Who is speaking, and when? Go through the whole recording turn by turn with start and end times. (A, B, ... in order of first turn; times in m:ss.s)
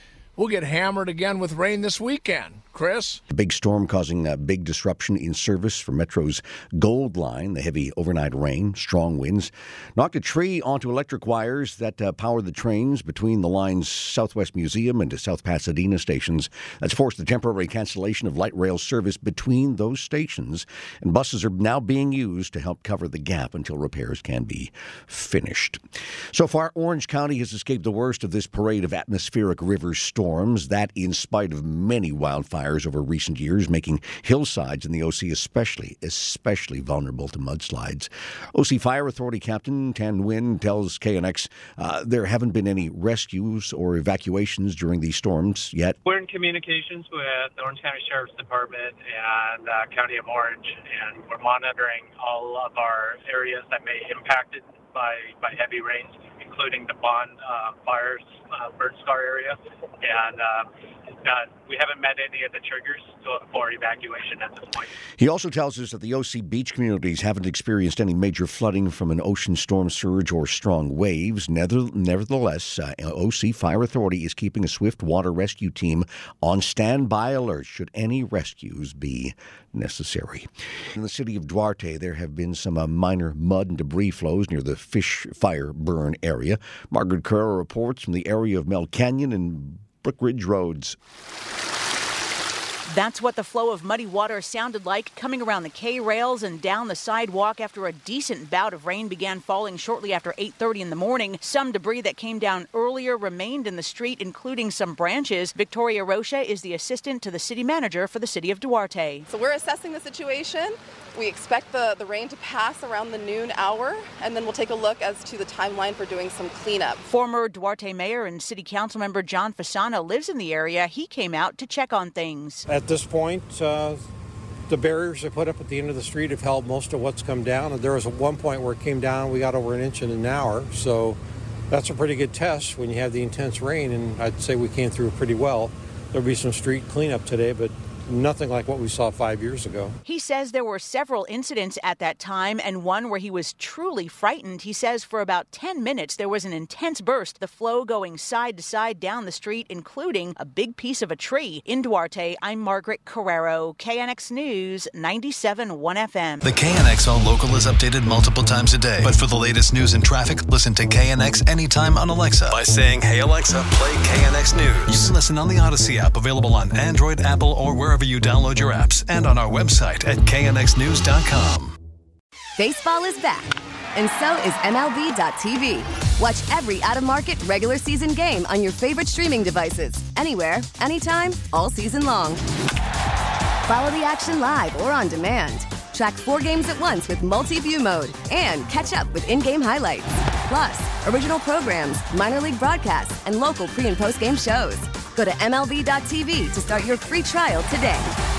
0:00.4-0:03.2 A
0:03.3-0:25.8 B
0:26.3-0:46.0 B
0:46.0-1:04.9 C
1:05.2-1:31.0 B
1:32.9-1:49.3 D
1:49.3-1:57.0 E
1:57.0-2:02.7 D
2:02.7-2:04.0 F
2:04.7-2:11.2 F
2:11.7-2:19.9 F
2:20.0-2:36.4 D
2:36.4-2:51.8 G
2:52.6-3:02.4 H
3:03.7-3:18.1 H